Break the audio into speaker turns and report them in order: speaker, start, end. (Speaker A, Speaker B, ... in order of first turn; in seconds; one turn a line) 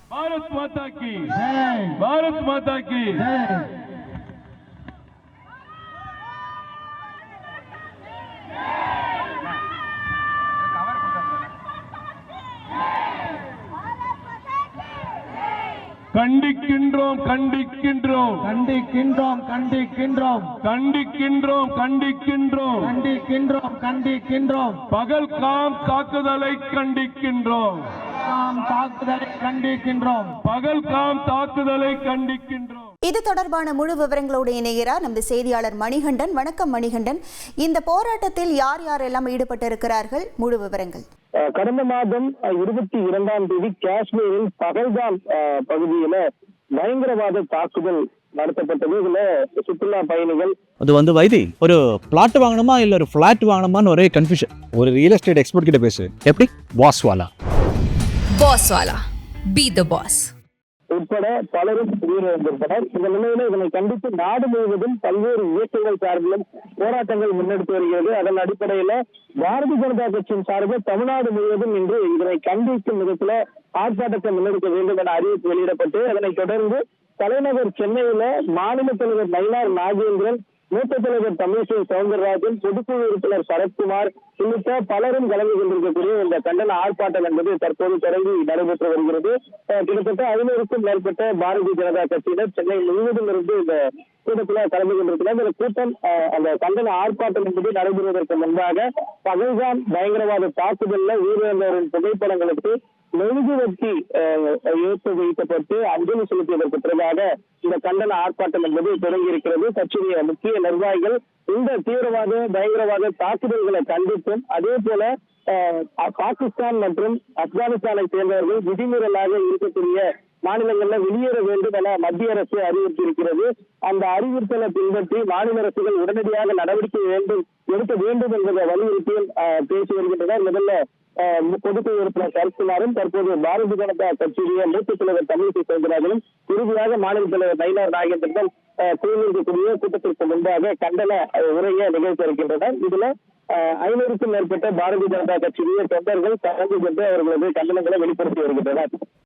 Speaker A: 0.1-1.4
Speaker B: 1.4-2.0
Speaker A: 2.0-3.3
Speaker B: 3.2-3.7
Speaker A: 16.1-18.4
Speaker B: 18.4-20.6
Speaker A: 20.6-22.9
Speaker B: 22.8-24.8
Speaker A: 24.9-27.9
Speaker B: 28.2-30.4
Speaker A: 30.4-32.9
Speaker C: 33.0-41.0
Speaker D: 41.5-46.2
Speaker D: 46.8-50.5
Speaker E: 50.8-57.3
Speaker F: 58.4-60.3
Speaker D: 60.9-148.9